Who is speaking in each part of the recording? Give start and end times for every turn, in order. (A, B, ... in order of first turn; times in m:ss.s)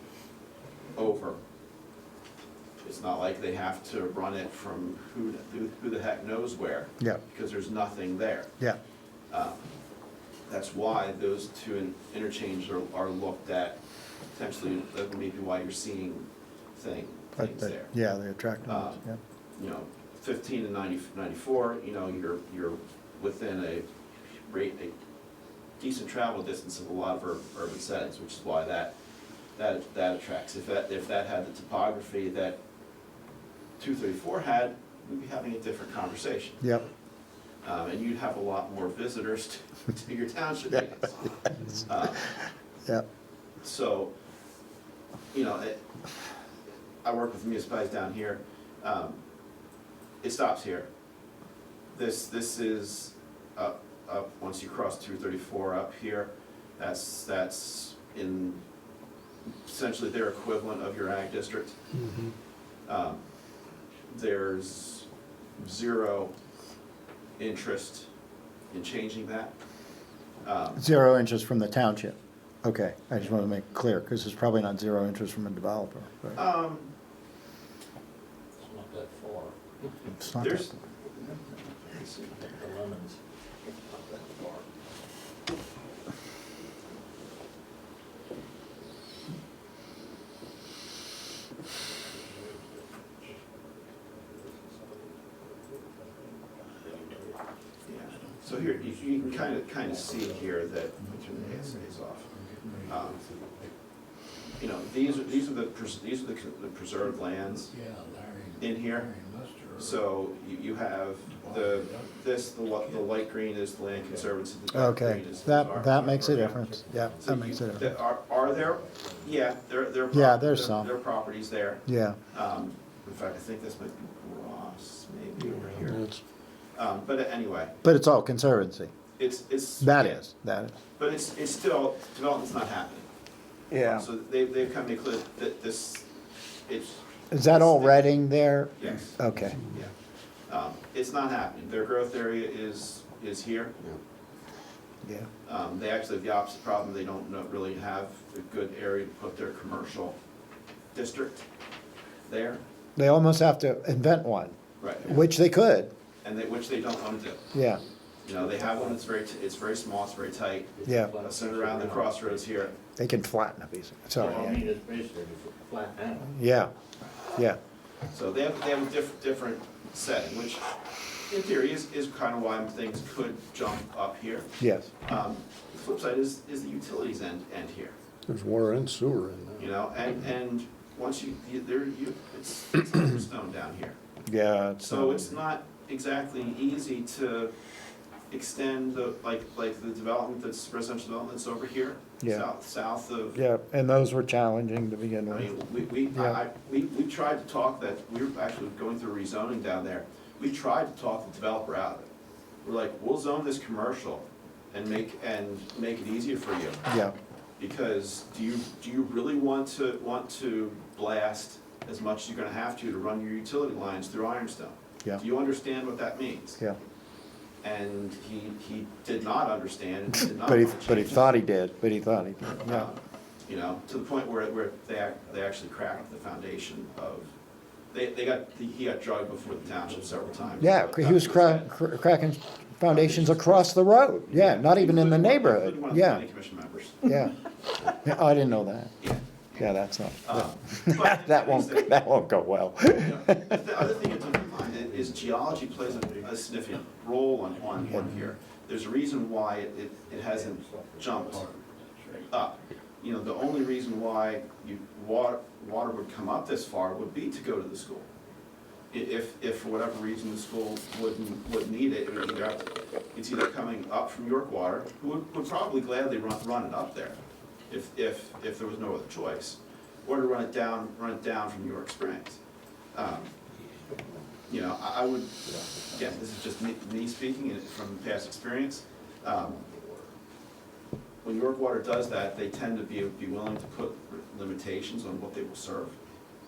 0:00.9-0:01.4 A
0:02.8-0:08.5 A
0:09.3-0:09.7 A
0:10.5-0:18.0 A
0:17.4-0:19.2 B
0:18.6-0:24.9 A
0:25.8-0:28.9 A
0:29.5-0:32.6 A
0:33.8-0:36.7 A
0:36.6-0:36.8 B
0:37.6-0:42.3 A
0:41.9-0:43.0 B
0:43.6-0:44.1 A
0:45.3-0:46.3 A
0:47.0-0:49.2 A
0:50.2-0:50.9 A
0:51.9-0:58.6 A
0:59.6-1:01.8 A
1:02.0-1:02.3 C
1:02.8-1:03.2 A
1:04.1-1:06.3 A
1:07.4-1:08.1 A
1:08.7-1:09.6 A
1:10.4-1:10.8 A
1:10.8-1:16.4 B
1:16.3-1:16.9 A
1:18.6-1:19.9 D
1:20.1-1:20.7 B
1:20.4-1:22.5 A
1:22.3-1:24.7 D
1:32.1-1:33.4 D
1:34.0-1:37.4 D
1:37.8-1:42.3 A
1:38.4-1:38.9 E
1:39.1-1:40.6 D
1:41.1-1:43.1 E
1:42.8-1:43.7 D
1:42.8-1:43.2 A
1:44.6-1:47.7 A
1:47.6-1:50.1 E
1:48.6-1:49.1 A
1:49.7-2:07.8 A
1:51.3-1:53.1 E
1:53.9-1:54.3 D
1:54.7-1:58.0 B
1:55.3-1:59.3 D
2:00.1-2:00.9 B
2:01.8-2:02.2 B
2:05.4-2:06.2 C
2:07.8-2:08.9 B
2:09.2-2:10.2 A
2:09.8-2:10.7 B
2:11.0-2:13.1 A
2:13.7-2:14.1 B
2:13.8-2:16.1 A
2:16.6-2:18.1 A
2:17.3-2:19.6 B
2:18.8-2:20.0 A
2:20.5-2:23.8 A
2:25.4-2:30.2 A
2:30.9-2:31.4 A
2:32.3-2:32.6 A
2:33.0-2:35.9 B
2:34.8-2:35.2 A
2:36.2-2:37.4 A
2:37.5-2:37.8 B
2:38.2-2:42.7 A
2:38.5-2:39.0 D
2:40.8-2:42.5 D
2:40.8-2:41.1 B
2:43.0-2:44.6 B
2:44.2-2:44.6 A
2:44.2-2:46.3 D
2:46.3-2:46.7 B
2:47.3-2:47.6 B
2:48.1-2:50.7 A
2:51.2-2:57.9 A
2:54.6-2:54.9 B
2:58.3-2:59.7 C
2:59.6-3:04.0 A
3:04.3-3:05.3 B
3:04.8-3:07.5 A
3:08.3-3:13.4 A
3:12.2-3:12.4 B
3:13.3-3:15.5 B
3:15.3-3:22.1 A
3:16.0-3:16.4 B
3:22.6-3:26.8 A
3:26.8-3:27.1 B
3:27.6-3:36.6 A
3:37.6-3:41.2 A
3:40.4-3:42.9 B
3:42.6-3:47.3 A
3:47.9-3:51.7 A
3:49.8-3:50.7 D
3:50.6-3:56.2 B
3:52.9-3:53.7 A
3:54.3-3:57.1 A
3:57.0-4:03.6 B
3:59.0-4:02.0 A
4:03.0-4:11.4 A
4:04.6-4:06.3 D
4:07.8-4:08.1 B
4:10.1-4:12.3 D
4:12.3-4:18.1 A
4:18.9-4:27.2 A
4:27.7-4:32.4 A
4:32.9-4:33.3 A
4:34.5-4:39.7 A
4:39.4-4:40.0 D
4:41.2-4:46.0 A